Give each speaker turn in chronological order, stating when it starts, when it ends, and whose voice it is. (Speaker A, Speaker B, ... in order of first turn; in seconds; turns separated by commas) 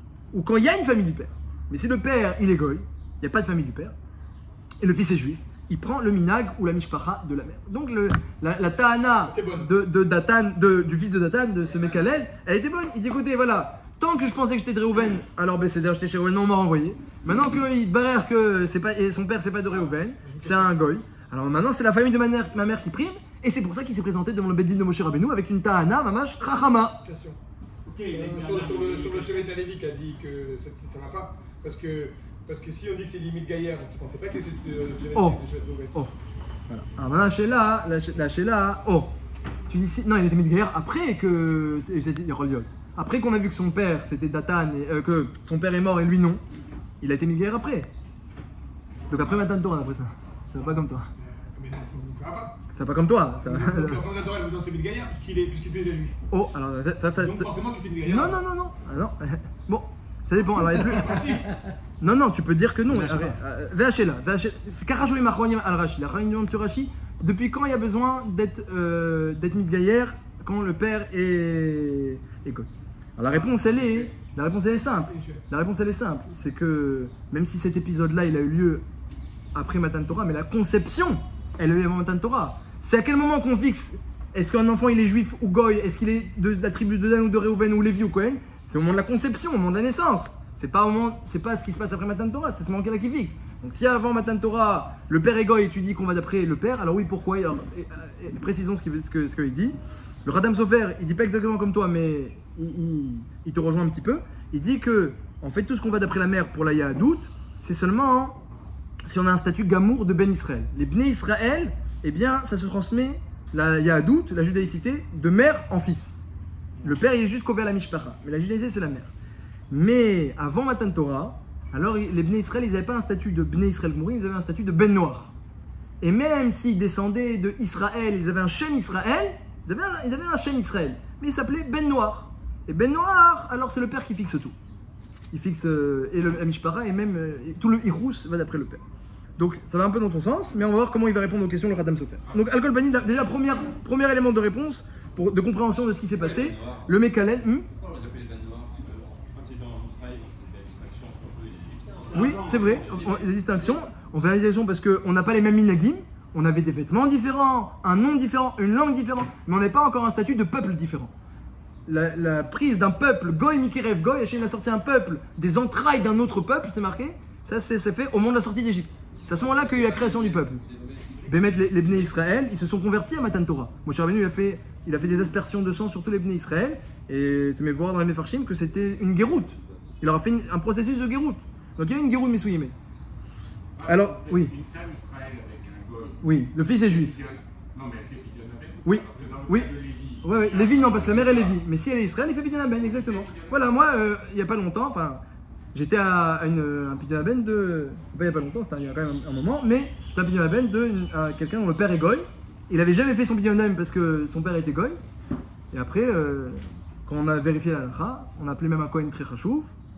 Speaker A: 0.3-3.9, Speaker A: 4.8-27.0, Speaker B: 9.2-9.7, Speaker B: 20.2-20.8, Speaker B: 27.0-27.4, Speaker C: 27.9-29.4, Speaker B: 28.1-36.0, Speaker A: 35.1-35.4, Speaker A: 36.7-39.1, Speaker A: 39.7-46.4, Speaker A: 47.0-47.9, Speaker A: 49.1-51.1, Speaker B: 49.1-49.5, Speaker B: 51.2-52.6, Speaker A: 52.7-54.0, Speaker B: 53.4-56.2, Speaker A: 56.3-61.2, Speaker B: 57.1-58.4, Speaker B: 60.8-61.5, Speaker A: 62.0-78.8, Speaker B: 73.3-74.1, Speaker B: 74.9-75.4, Speaker A: 79.5-108.4, Speaker A: 109.0-116.2, Speaker A: 116.8-119.1, Speaker A: 119.7-125.3, Speaker A: 126.0-134.6, Speaker A: 135.3-138.8, Speaker A: 139.4-147.7, Speaker D: 146.1-146.9, Speaker D: 147.7-153.2, Speaker C: 152.1-153.1, Speaker A: 152.1-161.1, Speaker A: 161.9-170.6, Speaker D: 169.1-171.9, Speaker A: 171.3-182.8, Speaker E: 183.8-191.6, Speaker A: 183.8-184.6, Speaker A: 186.2-187.2, Speaker A: 188.8-195.2, Speaker E: 192.7-193.9, Speaker A: 195.7-205.0, Speaker A: 205.7-209.7